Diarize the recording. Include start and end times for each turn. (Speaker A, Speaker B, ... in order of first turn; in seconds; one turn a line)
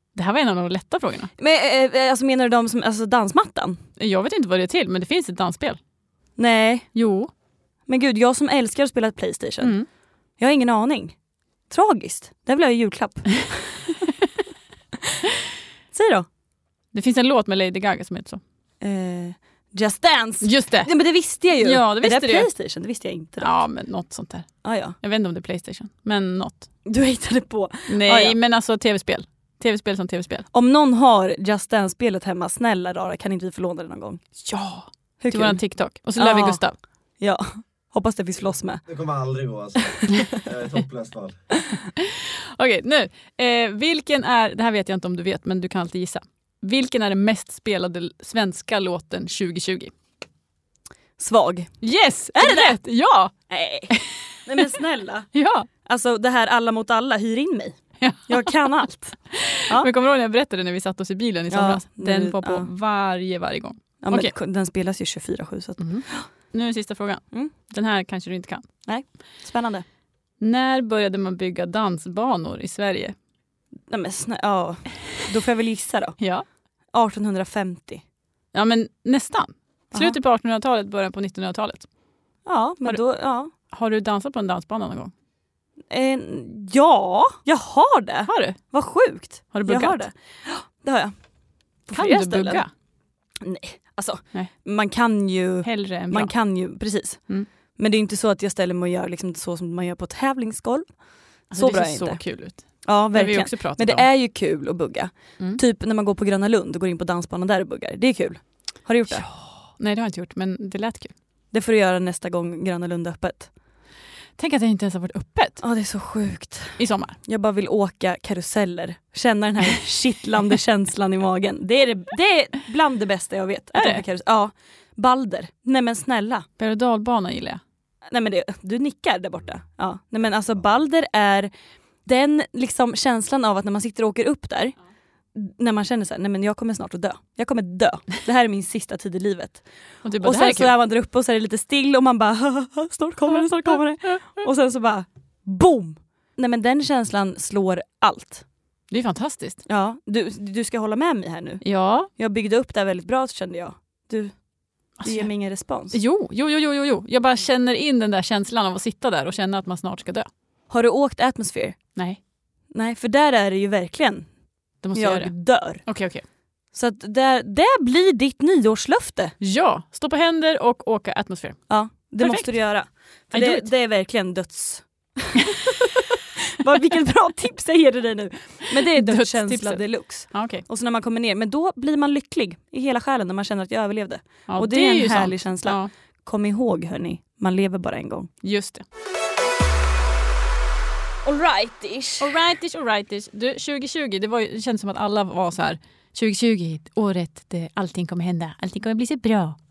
Speaker A: 0.1-1.3
Speaker B: 1.4-3.8
Speaker A: 4.0-5.8
Speaker B: 6.4-6.9
Speaker A: 7.0-7.3
Speaker B: 7.9-9.8
Speaker A: 9.6-9.9
Speaker B: 10.4-11.2
Speaker B: 11.7-14.1
Speaker B: 15.9-16.3
Speaker A: 16.9-18.4
Speaker B: 18.8-23.6
Speaker A: 20.4-20.9
Speaker A: 21.6-22.5
Speaker A: 23.4-26.7
Speaker B: 24.6-25.0
Speaker B: 26.9-28.4
Speaker A: 27.9-30.5
Speaker B: 30.5-34.2
Speaker A: 34.4-36.8
Speaker B: 35.2-35.6
Speaker B: 36.2-36.6
Speaker B: 37.2-38.8
Speaker C: 38.9-41.4
Speaker B: 40.0-40.3
Speaker A: 42.0-49.9
Speaker B: 51.2-51.7
Speaker A: 51.8-53.3
Speaker B: 52.4-52.8
Speaker B: 53.5-54.0
Speaker A: 53.9-54.7
Speaker B: 54.5-55.3
Speaker A: 55.3-55.7
Speaker B: 55.9-57.8
Speaker A: 58.0-58.7
Speaker B: 58.3-59.9
Speaker A: 59.3-64.3
Speaker B: 61.5-62.7
Speaker B: 64.0-66.3
Speaker A: 65.8-68.7
Speaker B: 68.9-69.8
Speaker A: 70.4-73.2
Speaker B: 73.9-76.2
Speaker A: 76.2-76.5
Speaker B: 76.9-78.0
Speaker A: 78.5-81.9
Speaker B: 82.5-83.5
Speaker A: 83.7-85.1
Speaker B: 85.9-91.1
Speaker A: 88.3-88.6
Speaker A: 89.5-90.0
Speaker B: 91.9-92.7
Speaker A: 91.9-92.7
Speaker B: 93.4-97.2
Speaker A: 95.6-96.3
Speaker B: 97.8-100.9
Speaker A: 101.5-104.0
Speaker B: 101.5-102.2
Speaker B: 102.8-109.3
Speaker A: 109.1-111.1
Speaker B: 111.5-113.5
Speaker A: 114.4-115.6
Speaker B: 115.6-126.5
Speaker A: 116.8-117.2
Speaker A: 123.8-124.0
Speaker A: 126.6-127.6
Speaker B: 128.1-131.5
Speaker B: 132.1-134.8
Speaker B: 135.3-139.7
Speaker A: 140.0-140.8
Speaker B: 140.2-148.4
Speaker A: 148.9-149.6
Speaker B: 149.7-151.6
Speaker A: 151.6-152.1
Speaker B: 152.2-154.3
Speaker A: 155.0-155.3
Speaker B: 155.0-156.0
Speaker A: 155.9-160.3
Speaker B: 160.7-161.8
Speaker B: 162.7-164.3
Speaker A: 164.8-166.2
Speaker B: 164.9-165.8
Speaker B: 166.7-169.3
Speaker A: 169.4-172.6
Speaker B: 171.7-188.3
Speaker A: 173.3-173.7
Speaker A: 178.9-180.6
Speaker A: 184.5-185.9
Speaker A: 188.4-188.8
Speaker B: 191.2-192.3
Speaker A: 192.2-199.6